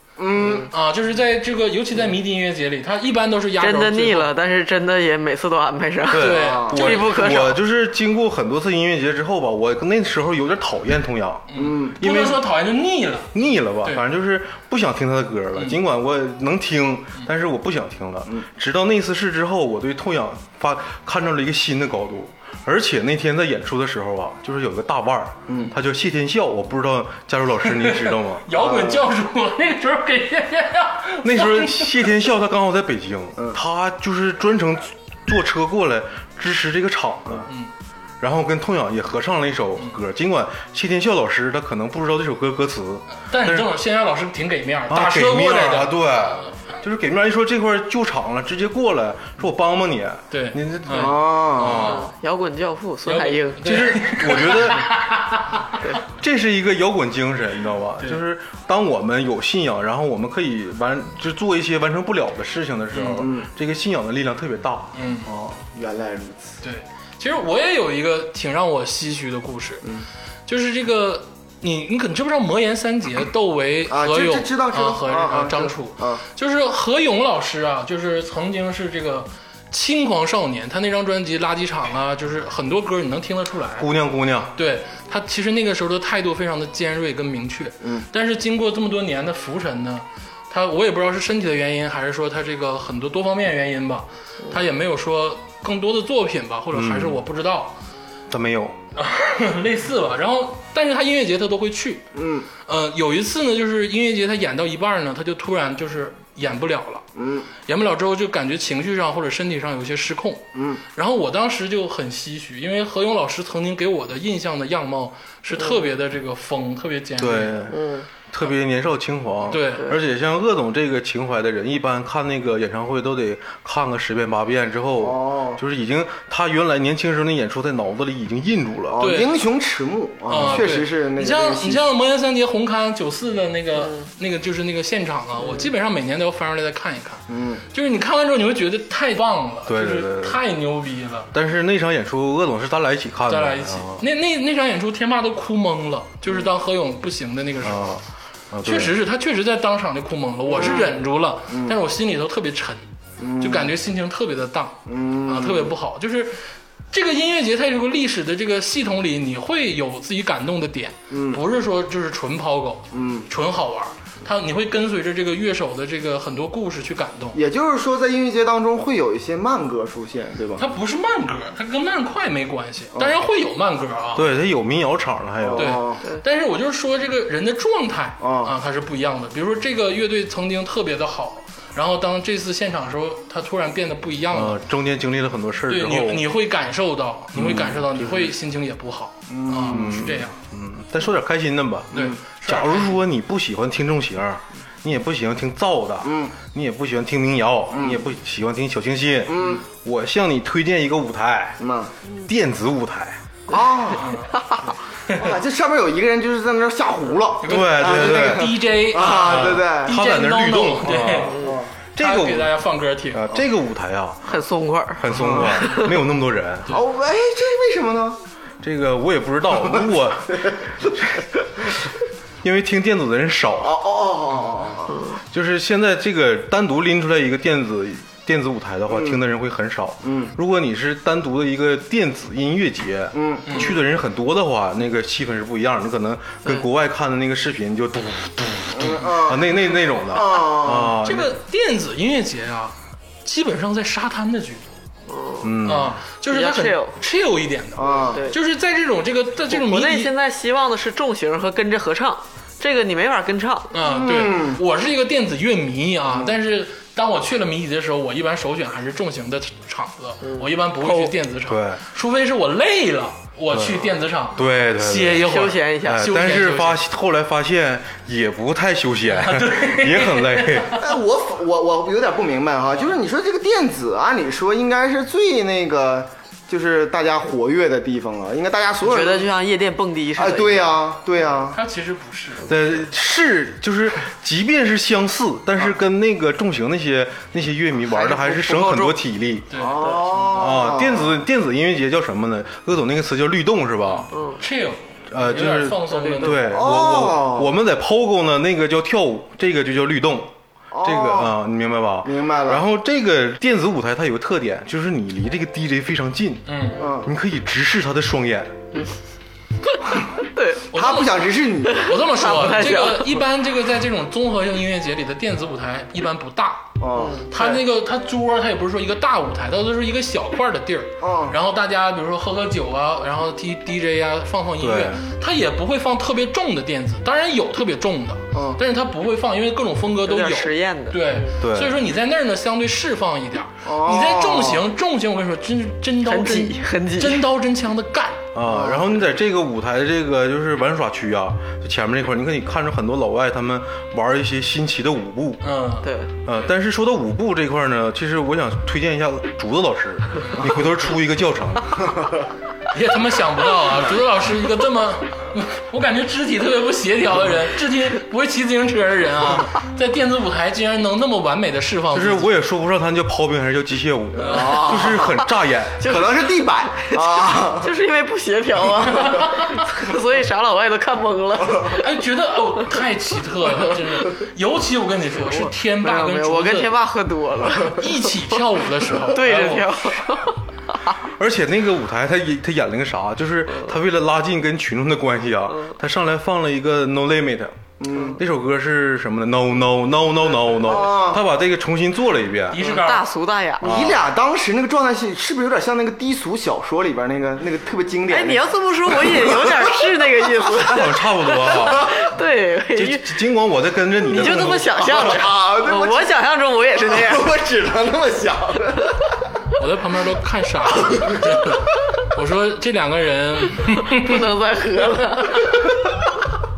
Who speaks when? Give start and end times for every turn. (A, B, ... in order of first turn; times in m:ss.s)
0:00.2-0:00.7 A
0:00.7-0:04.3 B
0:03.6-0:07.6 C
0:06.1-0:12.4 D
0:06.2-0:07.2 B
0:06.3-0:06.7 A
0:11.5-0:14.0 B
0:11.6-0:12.0 A
0:13.3-0:28.5 D
0:25.5-0:25.7 A
0:27.6-0:32.1 B
0:28.5-0:29.1 A
0:31.2-0:37.5 D
0:38.2-0:43.7 D
0:43.2-0:46.6 B
0:44.9-0:52.1 D
0:50.3-0:52.1 B
0:50.9-0:51.9 A
0:51.7-0:53.9 C
0:53.1-0:55.9 B
0:53.6-0:54.9 D
0:56.1-1:04.9 D
1:02.9-1:03.3 B
1:03.2-1:03.5 A
1:04.9-1:05.3 B
1:05.2-1:06.6 A
1:06.6-1:09.9 B
1:10.5-1:23.9 B
1:13.9-1:16.2 A
1:23.8-1:24.5 D
1:24.6-1:37.8 B
1:36.7-1:37.2 D
1:38.3-1:38.8 D
1:39.0-1:42.1 B
1:42.1-1:42.5 A
1:42.6-1:47.0 B
1:47.2-1:47.5 A
1:47.7-1:57.7 B
1:50.6-1:50.8 A
1:57.2-1:57.8 D
1:57.7-1:58.1 C
1:58.3-2:09.1 D
1:59.5-1:59.9 B
2:05.0-2:05.6 A
2:08.9-2:11.8 A
2:09.0-2:09.3 B
2:10.3-2:21.3 B
2:10.3-2:10.7 D
2:17.3-2:17.6 A
2:19.7-2:20.4 D
2:21.3-2:24.0 D
2:23.3-2:28.0 B
2:27.6-2:29.0 D
2:28.6-2:32.8 B
2:30.5-2:30.9 A
2:31.5-2:31.8 A
2:33.2-2:33.7 A
2:33.4-2:47.4 B
2:34.9-2:35.7 A
2:41.1-2:41.4 A
2:42.9-2:43.3 A
2:47.3-2:50.7 A
2:50.6-2:54.3 B
2:54.2-2:55.8 D
2:55.4-2:56.0 A
2:55.6-3:04.6 B
2:58.2-2:58.5 A
3:04.3-3:06.3 D
3:05.7-3:10.4 B
3:07.3-3:08.3 D
3:09.3-3:10.2 A
3:09.7-3:21.6 D
3:11.9-3:13.0 B
3:16.0-3:16.4 A
3:17.7-3:18.0 A
3:19.3-3:19.6 A
3:21.6-3:21.9 A
3:22.2-3:23.2 D
3:23.5-3:24.1 A
3:24.0-3:25.3 B
3:24.3-3:24.6 C
3:25.1-3:30.0 A
3:27.4-3:31.4 B
3:27.5-3:31.4 D
3:31.3-3:31.6 C
3:31.4-3:31.7 A
3:32.0-3:32.6 D
3:32.0-3:33.2 B
3:33.1-3:34.4 D
3:34.3-3:36.0 C
3:35.0-3:36.8 D
3:35.1-3:35.6 A
3:36.7-3:38.2 A
3:38.6-3:41.7 D
3:39.7-3:41.6 A
3:42.4-3:43.8 D
3:43.6-3:45.1 A
3:45.3-4:01.4 D
3:48.9-3:49.2 A
3:50.0-3:50.3 A
3:53.1-3:53.8 A
3:53.5-3:53.7 B
3:58.8-3:59.5 A
4:00.0-4:01.0 A
4:01.0-4:04.7 B
4:05.1-4:05.6 C
4:05.4-4:06.0 D
4:05.6-4:10.1 B
4:06.3-4:07.0 C
4:07.8-4:08.2 A
4:08.0-4:08.4 C
4:09.5-4:13.7 C
4:13.7-4:26.8 B
4:13.8-4:14.6 A
4:20.2-4:21.2 C
4:21.5-4:21.8 D
4:23.5-4:30.8 D
4:25.2-4:26.1 C
4:29.1-4:30.8 B
4:30.8-4:39.3 A
4:38.8-4:40.8 C
4:40.2-4:41.6 A
4:41.5-4:42.5 B
4:42.4-4:49.5 D
4:47.9-4:49.0 C
4:49.5-4:50.3 B
4:49.6-4:51.2 A
4:49.6-4:50.3 C
4:50.3-4:54.1 D
4:53.9-4:56.6 B
4:54.1-4:54.4 C
4:55.1-5:08.5 D
4:55.9-4:56.5 C
4:56.5-4:57.5 A
5:00.7-5:01.3 A
5:02.0-5:02.6 A
5:06.5-5:06.8 B
5:06.8-5:07.1 A
5:10.4-5:10.6 C
5:10.7-5:38.2 B
5:10.7-5:12.0 A
5:11.7-5:13.2 C
5:16.8-5:17.6 A
5:16.9-5:17.3 C
5:21.0-5:21.4 A
5:24.6-5:25.0 D
5:28.3-5:28.6 A
5:30.0-5:31.3 C
5:31.4-5:31.8 D
5:33.6-5:34.6 A
5:36.1-5:37.2 C
5:38.3-5:45.4 D
5:38.5-5:38.9 A
5:45.4-5:45.9 B
5:45.8-5:46.1 C
5:46.2-5:51.9 D
5:52.7-6:02.3 B
6:01.9-6:05.9 D
6:04.2-6:04.8 B
6:04.2-6:05.3 A
6:05.8-6:11.9 C
6:05.8-6:07.7 A
6:08.9-6:09.7 B
6:11.7-6:16.7 B
6:15.2-6:18.4 C
6:17.6-6:20.0 B
6:18.9-6:21.0 C
6:21.1-6:27.6 D
6:27.8-6:28.2 A
6:28.1-6:32.6 D
6:30.6-6:31.2 A
6:32.5-6:33.0 B
6:32.6-6:33.9 C
6:33.6-6:34.1 D
6:33.6-6:39.8 A
6:38.1-6:43.2 C
6:40.6-6:42.0 D
6:42.7-6:45.1 D
6:44.1-6:47.3 C
6:44.2-6:46.1 A
6:46.8-6:49.0 A
6:49.6-6:54.3 B
6:50.9-6:51.3 A
6:53.9-6:55.6 C